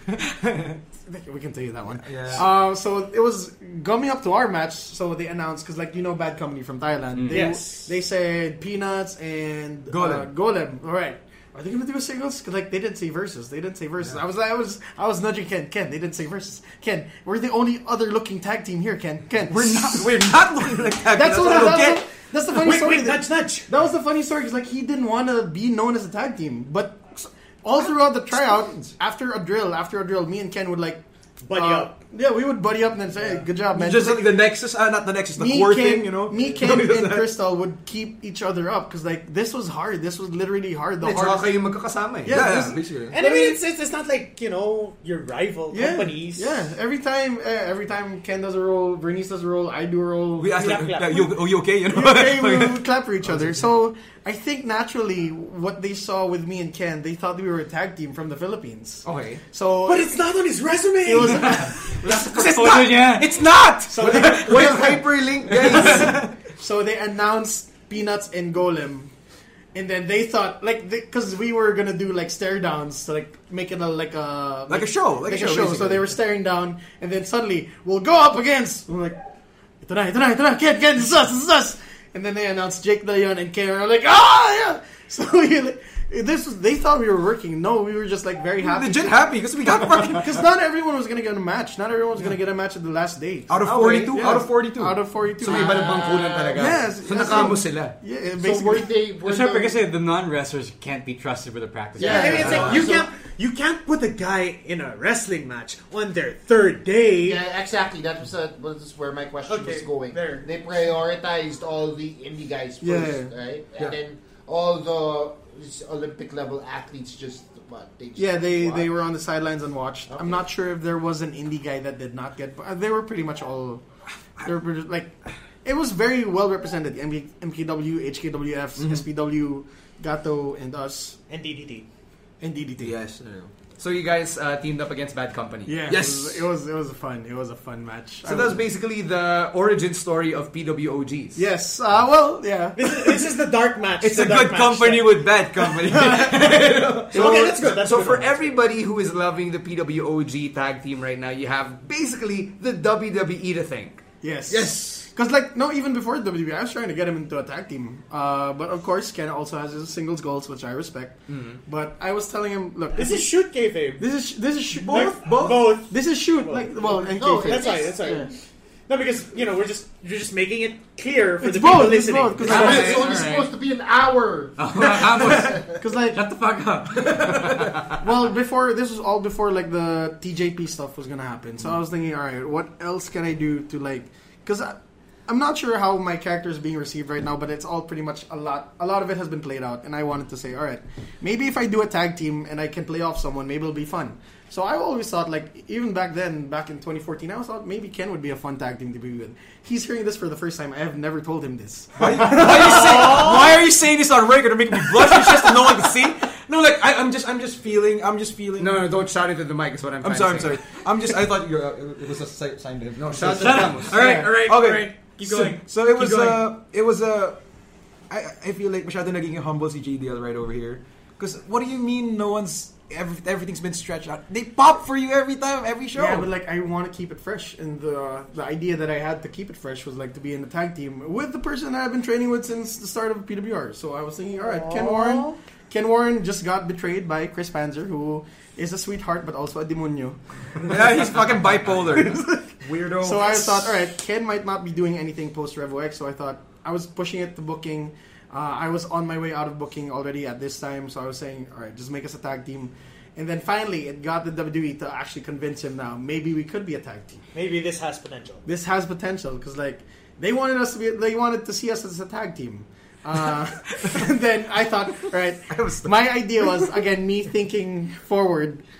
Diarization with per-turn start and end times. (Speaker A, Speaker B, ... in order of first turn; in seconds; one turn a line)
Speaker A: 1.0-20.2
Speaker B: 2.0-2.5
Speaker B: 7.1-7.4
Speaker C: 7.3-7.9
Speaker B: 9.9-10.3
Speaker B: 19.5-22.0
Speaker A: 21.0-31.0
Speaker C: 22.5-23.7
Speaker B: 28.3-28.9
Speaker C: 31.4-32.0
Speaker A: 31.5-34.4
Speaker B: 33.7-37.3
Speaker A: 35.3-41.6
Speaker D: 41.0-42.4
Speaker A: 42.2-43.5
Speaker B: 42.3-43.2
Speaker C: 43.1-46.6
Speaker A: 45.7-50.9
Speaker B: 50.4-53.6
Speaker C: 50.5-51.3
Speaker A: 51.8-60.1
Speaker D: 59.0-59.4
Speaker C: 59.8-61.7
Speaker A: 61.0-63.1
Speaker E: 62.4-63.4
Speaker B: 62.5-66.3
Speaker A: 63.9-64.9
Speaker C: 63.9-64.6
Speaker D: 64.0-66.1
Speaker A: 65.5-69.1
Speaker A: 69.7-79.2
Speaker B: 74.7-76.1
Speaker A: 79.8-95.9
Speaker B: 88.6-90.4
Speaker B: 93.5-95.0
Speaker D: 93.6-94.2
Speaker D: 95.4-98.0
Speaker F: 95.4-96.7
Speaker A: 96.5-99.0
Speaker F: 98.4-99.8
Speaker E: 99.2-102.6
Speaker A: 102.0-102.8
Speaker C: 102.0-107.4
Speaker F: 102.0-103.1
Speaker F: 107.2-118.9
Speaker C: 109.5-110.5
Speaker A: 112.8-113.3
Speaker A: 118.2-123.8
Speaker F: 120.1-120.4
Speaker A: 124.4-131.2
Speaker B: 128.8-129.1
Speaker C: 131.3-131.9
Speaker A: 132.4-132.9
Speaker B: 132.8-133.5
Speaker D: 133.8-135.8
Speaker A: 135.7-138.6
Speaker B: 135.9-136.5
Speaker D: 138.2-141.4
Speaker A: 141.3-143.2
Speaker C: 142.8-145.3
Speaker B: 144.0-147.8
Speaker D: 147.0-154.0
Speaker C: 147.1-148.5
Speaker A: 147.1-147.6
Speaker A: 154.2-163.3
Speaker B: 154.5-155.1
Speaker D: 161.3-161.6
Speaker C: 162.9-164.1
Speaker A: 164.0-168.3
Speaker B: 164.7-165.8
Speaker C: 164.9-168.3
Speaker F: 166.9-168.2
Speaker C: 168.9-172.9
Speaker A: 171.4-173.4
Speaker F: 172.4-175.5
Speaker D: 172.5-172.9
Speaker E: 174.6-178.0
Speaker A: 175.2-176.2
Speaker A: 177.1-203.3
Speaker B: 202.0-208.9
Speaker C: 202.7-203.6
Speaker D: 208.6-210.8
Speaker B: 210.0-217.4
Speaker D: 213.0-214.0
Speaker E: 213.3-216.5
Speaker A: 213.9-214.4
Speaker B: 218.1-226.3
Speaker A: 225.9-240.7
Speaker C: 234.4-235.3
Speaker B: 240.7-243.7
Speaker A: 241.9-257.2
Speaker C: 257.3-258.4
Speaker A: 258.4-268.6